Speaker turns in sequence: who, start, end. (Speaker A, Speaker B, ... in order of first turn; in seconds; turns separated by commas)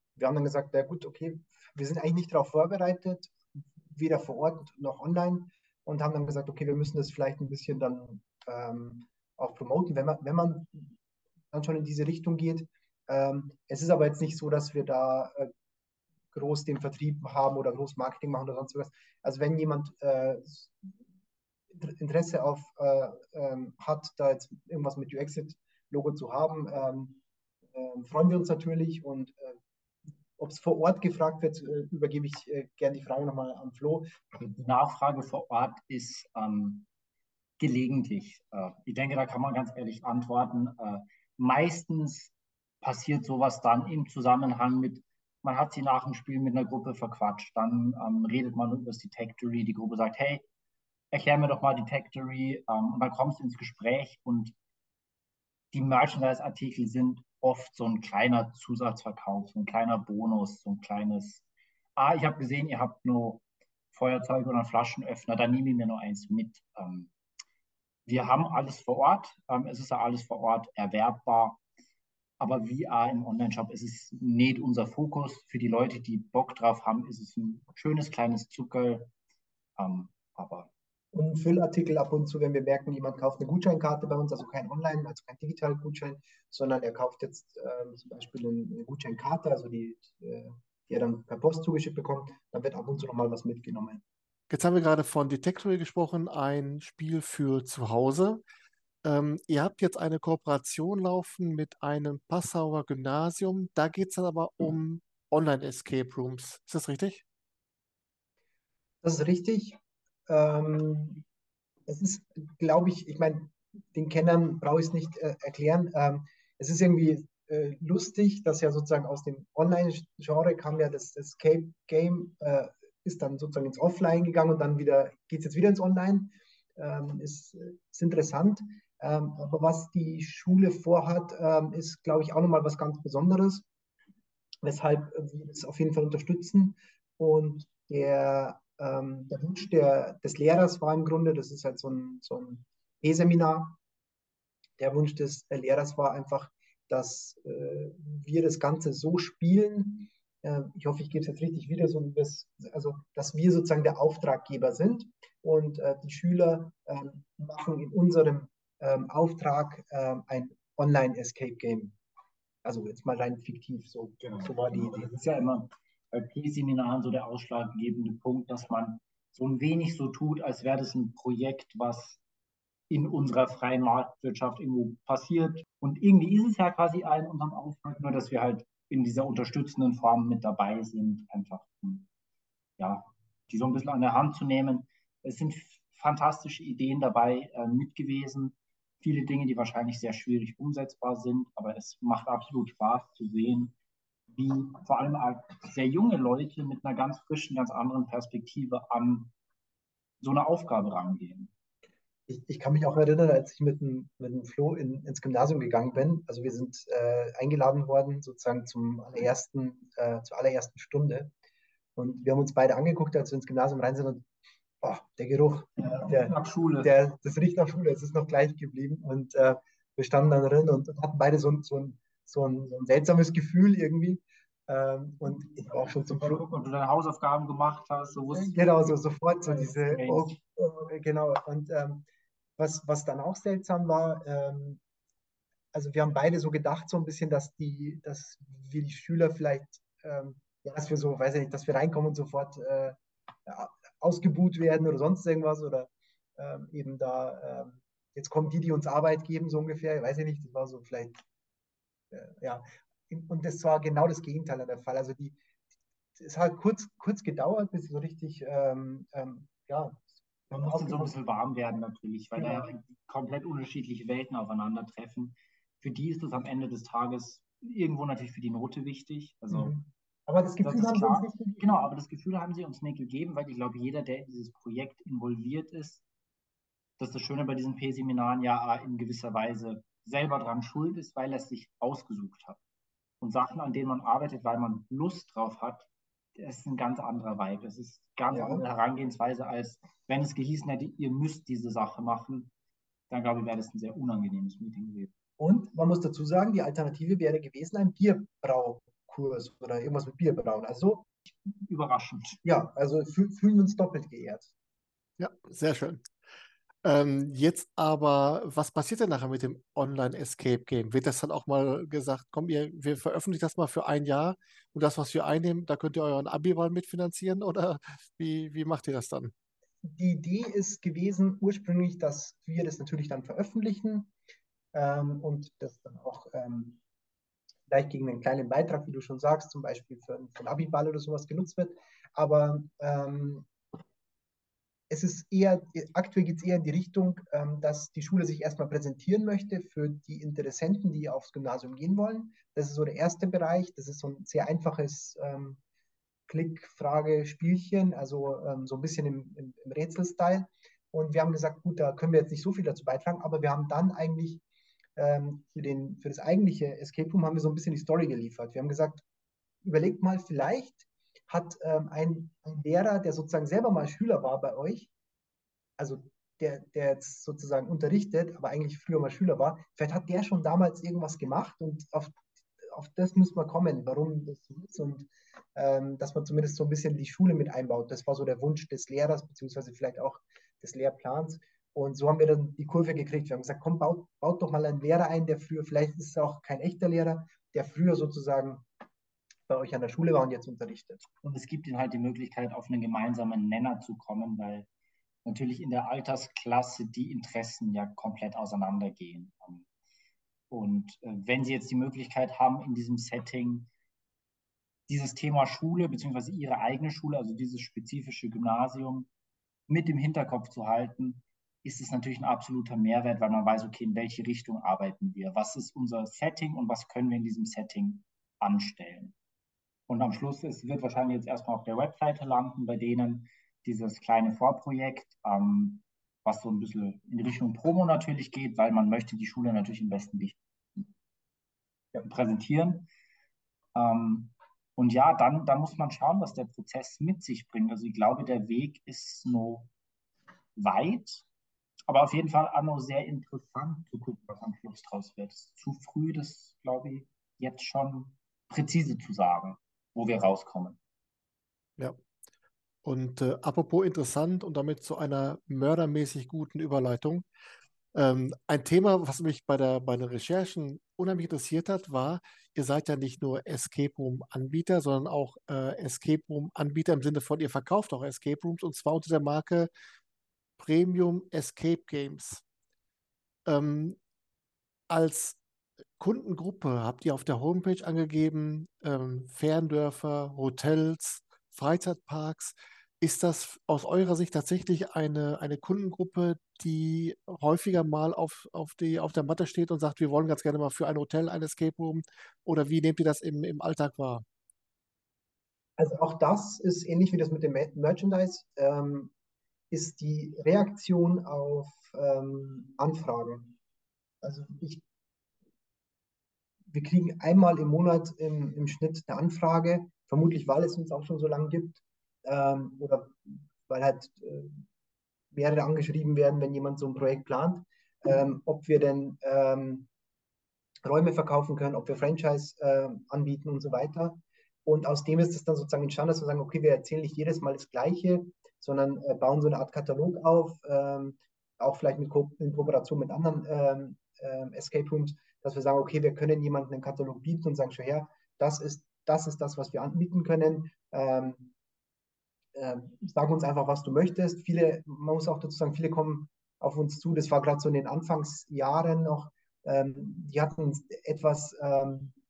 Speaker A: 0.2-10.9, Speaker A: 11.5-15.5, Speaker A: 16.3-20.8, Speaker A: 21.8-27.2, Speaker A: 27.7-29.6, Speaker A: 30.4-34.1, Speaker B: 34.3-36.9, Speaker B: 37.6-50.5, Speaker B: 51.1-54.5, Speaker B: 55.7-61.4, Speaker B: 62.0-63.4, Speaker B: 63.9-67.1, Speaker B: 68.1-71.6, Speaker B: 72.4-79.1, Speaker B: 79.8-80.7, Speaker A: 81.1-94.0, Speaker C: 94.5-98.4, Speaker C: 99.0-107.2, Speaker A: 109.0-111.2, Speaker A: 111.9-133.7, Speaker A: 134.6-143.8, Speaker A: 144.8-162.0, Speaker A: 162.7-165.2, Speaker B: 164.2-172.2, Speaker B: 172.9-182.1, Speaker B: 182.8-193.7, Speaker B: 194.3-199.3, Speaker B: 200.2-201.5, Speaker A: 202.3-211.3, Speaker A: 212.0-214.2, Speaker A: 214.8-226.4, Speaker B: 215.8-216.9, Speaker B: 225.8-228.7, Speaker A: 228.3-232.1, Speaker B: 229.4-230.3, Speaker A: 232.6-234.8, Speaker A: 235.7-251.2, Speaker A: 252.1-255.4, Speaker A: 256.2-261.1, Speaker B: 260.5-269.7, Speaker A: 262.4-262.7, Speaker A: 269.5-271.8, Speaker B: 270.6-276.0, Speaker B: 277.0-282.6, Speaker B: 283.2-292.5, Speaker A: 288.3-288.6, Speaker B: 293.1-295.1, Speaker A: 295.4-301.1, Speaker B: 301.7-302.4, Speaker A: 302.4-304.5, Speaker C: 305.2-306.1, Speaker C: 306.8-319.3, Speaker A: 319.8-324.1, Speaker A: 324.7-326.8, Speaker A: 327.7-333.5, Speaker A: 334.9-345.6, Speaker A: 346.3-354.4, Speaker A: 355.0-359.0, Speaker A: 359.6-364.9, Speaker A: 365.8-388.6, Speaker A: 389.5-391.1, Speaker B: 391.2-394.7, Speaker B: 395.2-399.7, Speaker B: 400.5-403.7, Speaker B: 404.9-409.1, Speaker B: 409.7-419.1, Speaker B: 419.9-430.4, Speaker B: 431.9-432.9, Speaker B: 433.8-439.7, Speaker B: 440.6-441.3, Speaker B: 441.9-450.8, Speaker C: 452.8-457.2, Speaker C: 457.9-469.7, Speaker C: 470.6-472.4, Speaker C: 473.5-474.0, Speaker C: 474.9-475.4, Speaker C: 476.0-494.2, Speaker A: 495.8-499.1, Speaker A: 499.7-503.6, Speaker A: 504.2-504.8, Speaker A: 506.7-514.6, Speaker A: 515.3-519.9, Speaker A: 520.9-541.5, Speaker A: 542.5-552.2